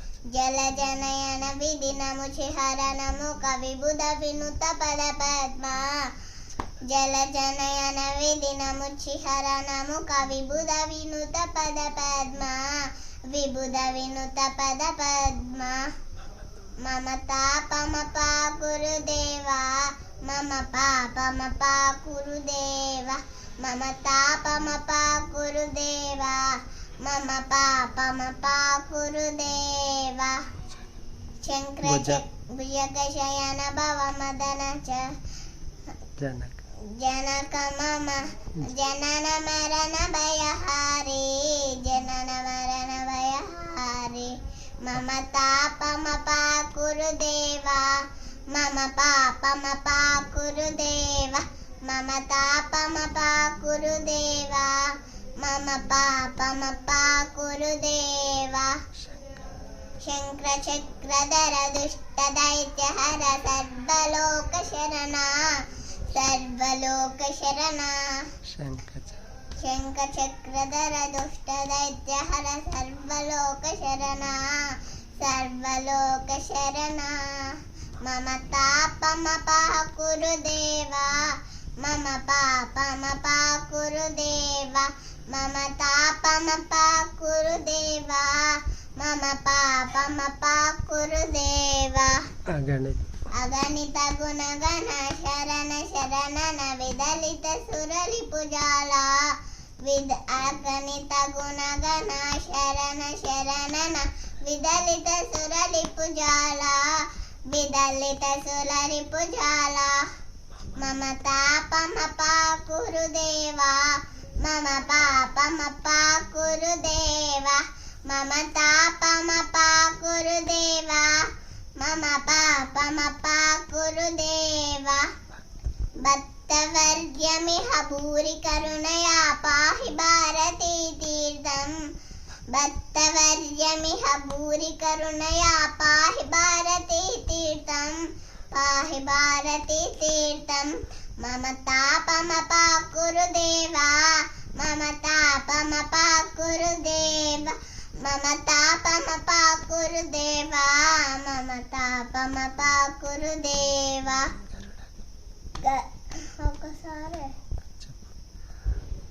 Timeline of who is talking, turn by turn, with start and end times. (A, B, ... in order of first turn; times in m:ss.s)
0:00.3-0:06.1 A
0:06.8-0:15.9 A
0:16.8-0:30.5 A
0:31.4-0:35.2 A
0:31.8-0:32.2 B
0:36.2-0:36.6 B
0:36.9-0:58.8 A
1:00.0-1:08.3 A
1:08.5-1:09.2 B
1:09.6-1:32.2 A
1:32.5-1:33.0 B
1:33.3-1:50.1 A
1:50.8-2:05.1 A
2:06.0-2:11.9 A
2:12.5-2:34.4 A
2:35.6-2:37.4 A